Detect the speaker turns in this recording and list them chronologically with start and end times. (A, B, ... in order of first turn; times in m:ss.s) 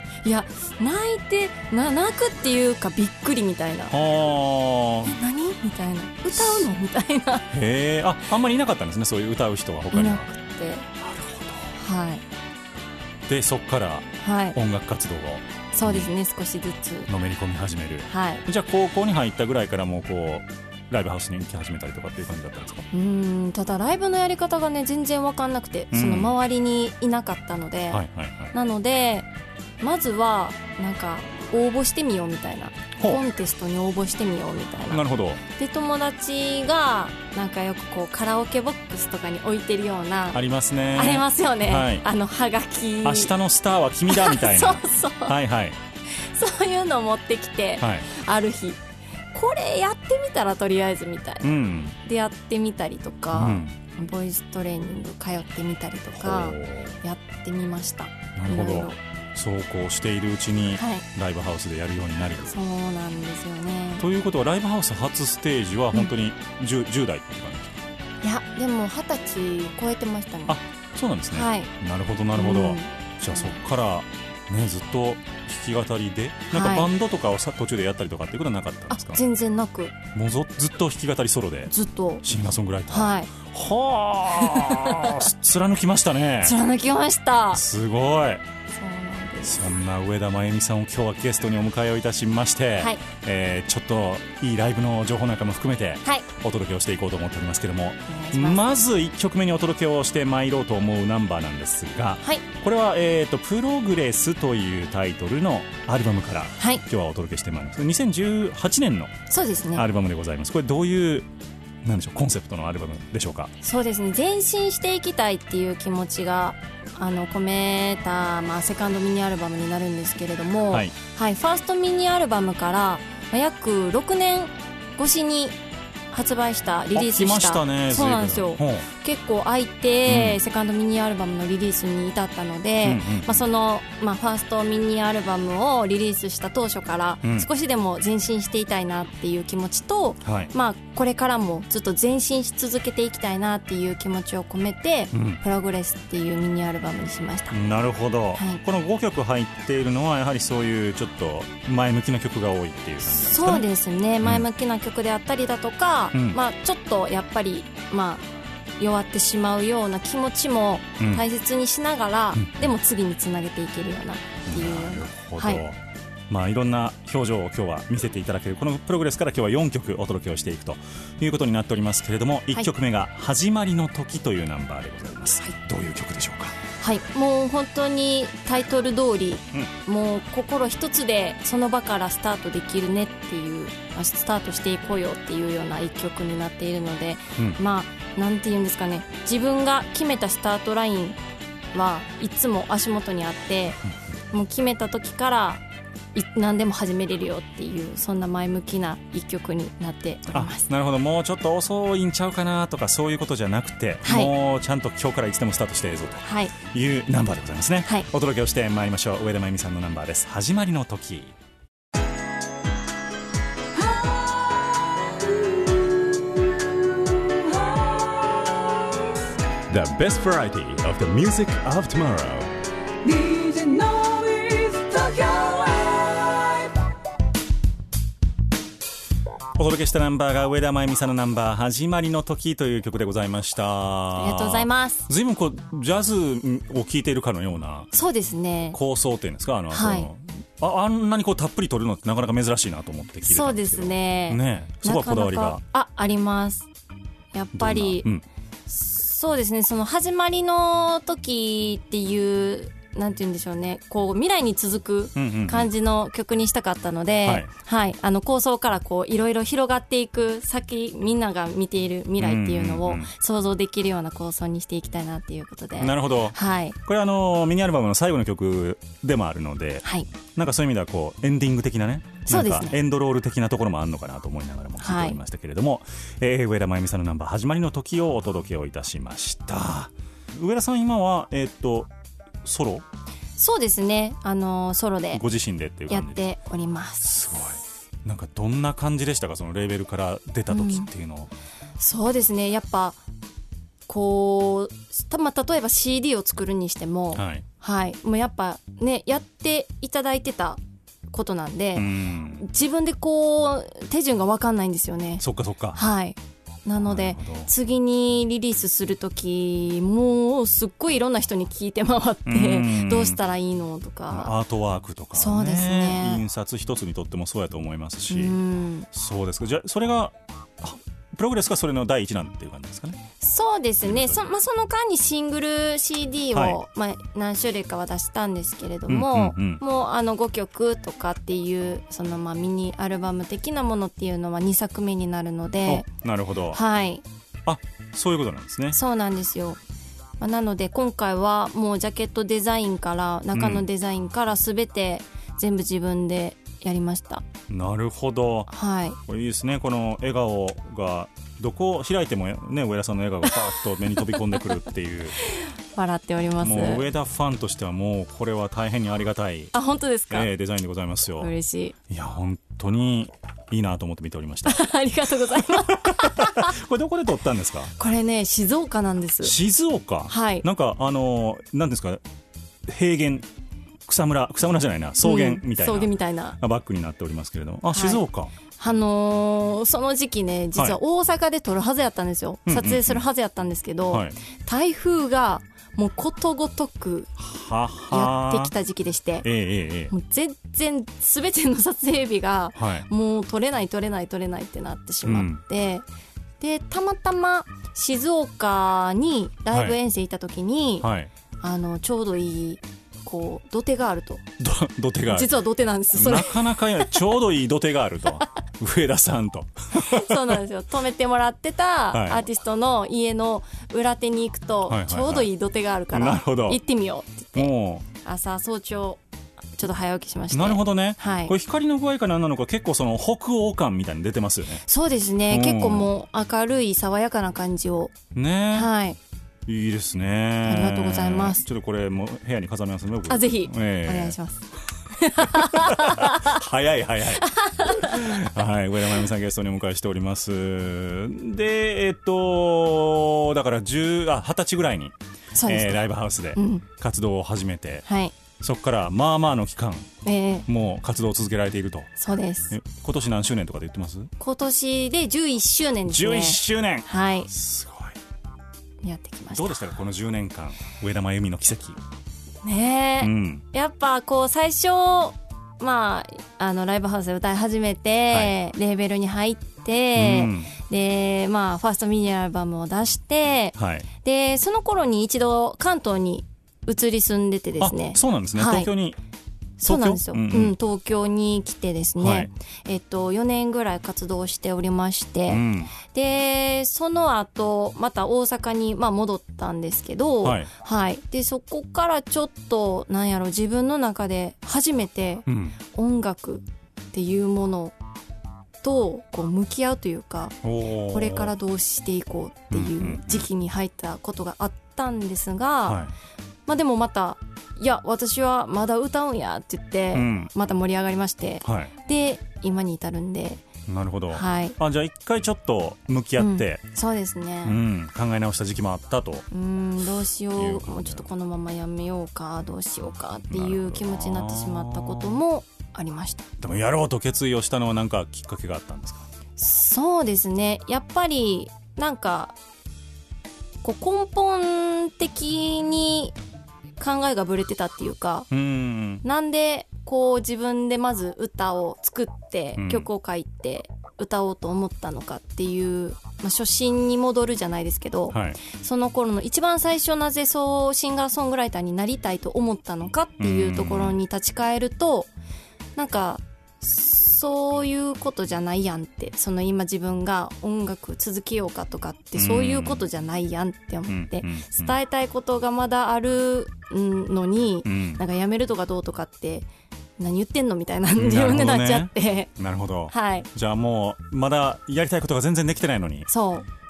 0:00.2-0:03.9 A
0:03.9-0:05.2 B
0:05.0-0:07.5 A
0:06.3-0:06.7 B
0:07.5-0:10.3 B
0:09.9-0:10.9 A
0:11.0-0:11.7 B
0:11.8-0:12.2 A
0:13.3-0:16.1 B
0:14.2-0:14.6 A
0:15.7-0:17.1 A
0:17.1-0:22.9 B
0:18.1-0:18.4 A
0:22.9-0:29.3 A
0:25.9-0:26.3 B
0:27.9-0:28.5 B
0:29.8-0:40.4 A
0:34.9-0:35.4 B
0:40.3-0:42.0 B
0:40.9-0:43.3 A
0:43.0-0:45.8 B
0:44.1-0:45.4 A
0:46.1-0:59.0 A
0:47.8-0:48.1 B
0:51.4-0:52.0 B
0:53.3-0:53.7 B
0:56.2-0:56.9 B
0:58.4-1:02.6 B
1:00.8-1:01.0 A
1:02.5-1:04.1 A
1:04.0-1:07.8 B
1:08.2-1:10.6 A
1:10.5-1:19.2 B
1:11.3-1:11.7 A
1:12.3-1:13.6 A
1:16.5-1:16.9 A
1:18.9-1:20.0 A
1:20.1-1:26.6 B
1:21.7-1:22.2 A
1:22.9-1:23.3 A
1:24.4-1:25.2 A
1:26.4-1:27.6 A
1:27.5-1:28.4 B
1:28.7-1:29.7 A
1:29.4-1:49.1 B
1:38.1-1:38.6 A
1:49.3-1:49.8 A
1:49.7-1:51.3 B
1:51.8-1:53.5 B
1:53.6-2:05.6 A
2:06.1-2:27.6 A
2:06.9-2:08.9 B
2:10.1-2:10.4 B
2:12.8-2:13.4 B
2:17.2-2:17.5 B
2:20.2-2:20.5 B
2:25.1-2:25.4 B
2:27.5-2:33.6 B
2:28.4-2:28.6 A
2:33.1-2:38.2 A
2:36.1-2:36.4 B
2:38.8-2:45.6 A
2:41.0-2:41.2 B
2:42.3-2:42.7 B
2:44.5-2:56.6 B
2:56.8-3:11.2 A
3:11.7-3:13.8 A
3:14.3-3:15.6 A
3:16.1-3:20.7 A
3:20.3-3:31.4 B
3:24.0-3:24.3 A
3:26.2-3:26.5 A
3:33.8-3:38.6 C
3:39.7-3:42.5 D
3:43.0-3:46.7 C
3:49.6-3:57.9 B
3:54.1-3:55.1 A
3:57.9-3:58.8 A
3:58.7-4:05.6 B
3:59.7-4:00.1 A
4:03.2-4:06.7 A
4:07.3-4:08.1 A
4:07.5-4:08.2 B
4:08.7-4:26.8 A
4:15.2-4:15.7 B
4:22.2-4:23.1 B
4:25.8-4:41.9 B
4:29.8-4:30.1 A
4:32.2-4:32.8 A
4:34.8-4:35.2 A
4:42.4-4:42.8 B
4:43.4-4:45.2 A
4:45.1-4:46.2 B
4:45.9-4:47.1 A
4:47.0-4:51.3 B
4:50.5-4:50.9 A
4:51.8-4:53.0 A
4:53.9-5:00.6 A
4:57.1-4:57.4 B
5:01.1-5:14.3 A
5:01.7-5:02.4 B
5:05.2-5:05.8 B
5:06.8-5:07.5 B
5:12.2-5:13.2 B
5:14.1-5:18.4 B
5:15.1-5:16.2 A
5:18.1-5:18.9 A
5:18.9-5:23.0 B
5:23.2-5:35.9 A
5:23.8-5:24.2 B
5:26.3-5:26.6 B
5:28.9-5:29.6 B
5:35.6-5:36.6 B
5:36.5-5:37.0 A
5:37.4-5:38.8 B
5:38.7-5:39.6 A
5:40.2-5:47.2 A
5:43.3-5:43.6 B
5:47.5-5:48.5 B
5:48.5-5:49.0 A
5:49.0-5:55.1 B
5:55.2-5:56.9 A
5:56.4-5:59.5 B
5:59.5-6:00.3 A
6:00.1-6:01.3 B
6:01.2-6:01.7 A
6:01.9-6:04.6 B
6:04.4-6:06.5 A
6:05.2-6:07.7 B
6:07.8-6:09.3 A
6:09.2-6:12.0 B
6:10.1-6:10.4 A
6:12.6-6:13.2 B
6:13.8-6:18.3 B
6:15.0-6:16.4 A
6:17.7-6:18.0 A
6:18.6-6:27.1 A
6:22.4-6:23.0 B
6:27.2-6:28.5 B
6:27.9-6:29.3 A
6:29.2-6:29.9 B
6:29.9-6:35.8 A
6:32.6-6:32.8 B
6:35.0-6:35.4 B
6:36.4-6:40.9 A
6:39.5-6:39.8 B
6:40.8-6:41.1 B
6:41.4-6:44.2 A
6:44.4-6:45.3 B
6:45.1-6:46.9 A
6:45.9-6:50.4 B
6:49.7-6:59.0 A
6:51.9-6:52.2 B
6:54.7-6:55.3 B
6:55.9-6:56.6 B
6:57.3-6:57.8 B
6:59.6-7:01.3 A
7:00.3-7:04.6 B
7:04.6-7:07.9 A
7:05.3-7:05.9 B
7:08.1-7:08.7 B
7:08.5-7:09.0 A
7:09.4-7:14.2 B
7:10.4-7:11.4 A
7:13.1-7:16.4 A
7:15.2-7:24.9 B
7:17.2-7:18.2 A
7:25.3-7:26.6 A
7:25.4-7:27.8 B
7:27.8-7:28.1 A
7:28.4-7:29.9 B
7:30.0-7:30.5 A
7:30.5-7:31.9 B
7:32.0-7:32.5 A
7:32.5-7:34.1 B
7:34.2-7:37.3 A
7:35.9-7:38.0 B
7:38.8-7:39.6 A
7:39.3-7:41.8 B
7:42.4-7:58.7 A
7:43.0-7:43.4 B
7:49.9-7:50.5 B
7:53.6-7:53.9 B
7:57.6-7:59.0 B
7:59.6-8:17.8 A
7:59.6-8:00.5 B
8:02.0-8:02.3 B
8:05.3-8:05.7 B
8:10.2-8:10.5 B
8:15.3-8:15.5 B
8:18.6-8:25.8 A
8:20.4-8:21.3 B
8:22.5-8:23.2 B
8:25.6-8:25.9 B
8:26.5-8:33.4 A
8:29.9-8:30.3 B
8:31.4-8:31.7 B
8:33.7-8:36.6 B
8:34.1-8:34.6 A
8:36.2-8:37.6 A
8:37.4-8:39.3 B
8:39.3-8:46.3 A
8:40.3-8:41.1 B
8:43.3-8:45.2 B
8:46.4-8:49.0 B
8:49.4-8:52.4 A
8:53.6-8:56.2 A
8:56.8-8:58.3 A
8:58.3-8:59.0 B
8:59.0-9:15.1 A
9:02.5-9:02.9 B
9:08.1-9:08.4 B
9:13.2-9:13.9 B
9:15.8-9:29.5 A
9:22.1-9:22.8 B
9:23.9-9:24.7 B
9:27.6-9:28.0 B
9:30.0-9:32.3 A
9:31.0-9:36.1 B
9:32.9-9:33.3 A
9:36.1-9:36.5 A